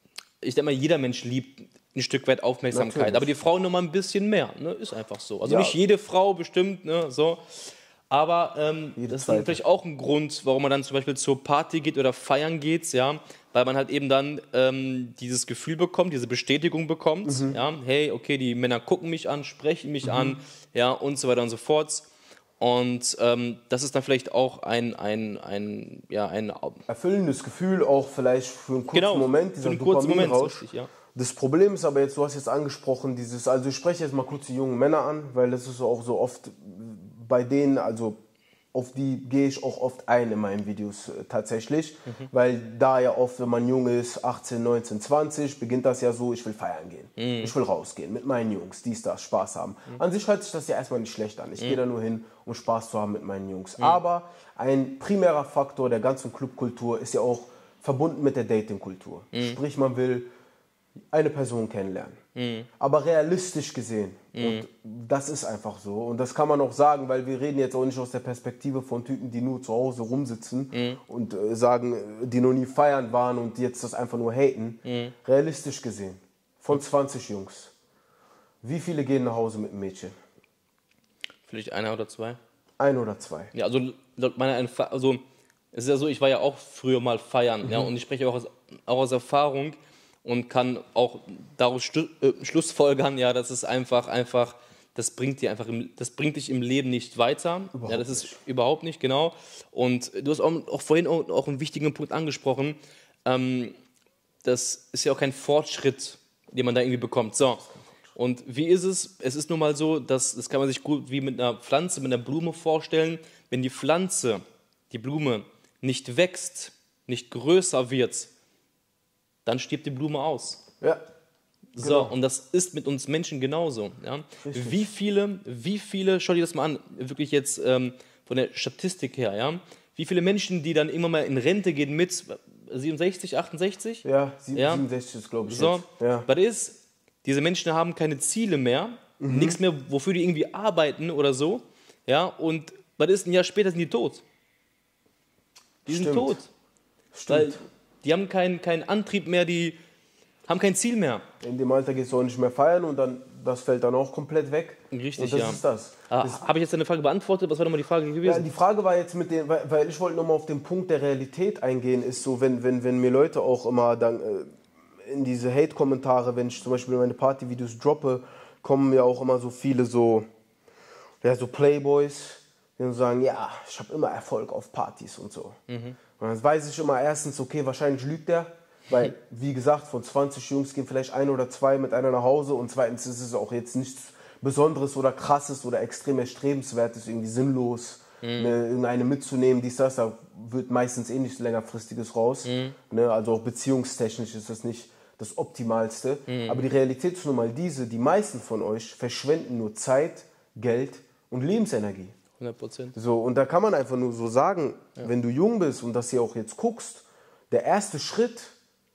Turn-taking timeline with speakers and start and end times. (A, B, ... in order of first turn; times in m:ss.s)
0:00.4-0:07.4 A
0:02.7-0:03.4 B
0:05.4-0:05.8 B
0:08.1-0:22.1 A
0:09.0-0:09.6 B
0:17.2-0:17.6 B
0:20.0-0:20.4 B
0:22.6-0:26.8 A
0:26.9-0:38.2 B
0:28.9-0:30.9 A
0:38.7-1:00.3 B
0:47.2-0:47.5 A
0:59.3-0:59.6 A
1:01.1-1:02.2 B
1:02.4-1:02.7 A
1:02.8-1:17.7 B
1:04.4-1:04.6 A
1:10.7-1:11.0 A
1:14.8-1:15.1 A
1:18.6-1:20.2 B
1:21.5-1:22.4 A
1:22.8-1:23.5 B
1:23.5-1:25.2 A
1:25.7-1:43.7 A
1:37.7-1:38.4 B
1:44.4-1:47.6 A
1:47.4-1:48.2 B
1:48.2-1:58.3 A
1:59.4-2:00.6 A
2:01.8-2:14.0 A
2:01.8-2:02.1 B
2:04.4-2:04.9 B
2:14.0-2:16.3 B
2:14.6-2:14.8 A
2:15.5-2:24.2 A
2:19.2-2:19.6 B
2:25.9-2:26.4 B
2:25.9-2:26.5 A
2:27.1-2:27.6 B
2:27.3-2:29.8 A
2:30.5-2:31.2 A
2:31.4-2:36.5 B
2:34.9-2:38.5 A
2:38.2-2:44.5 B
2:45.0-2:50.3 B
2:51.2-2:55.6 B
2:55.7-2:56.0 A
2:56.2-3:22.2 B
3:08.2-3:08.5 A
3:12.4-3:12.8 A
3:16.3-3:16.6 A
3:22.4-3:23.0 A
3:23.0-3:28.6 B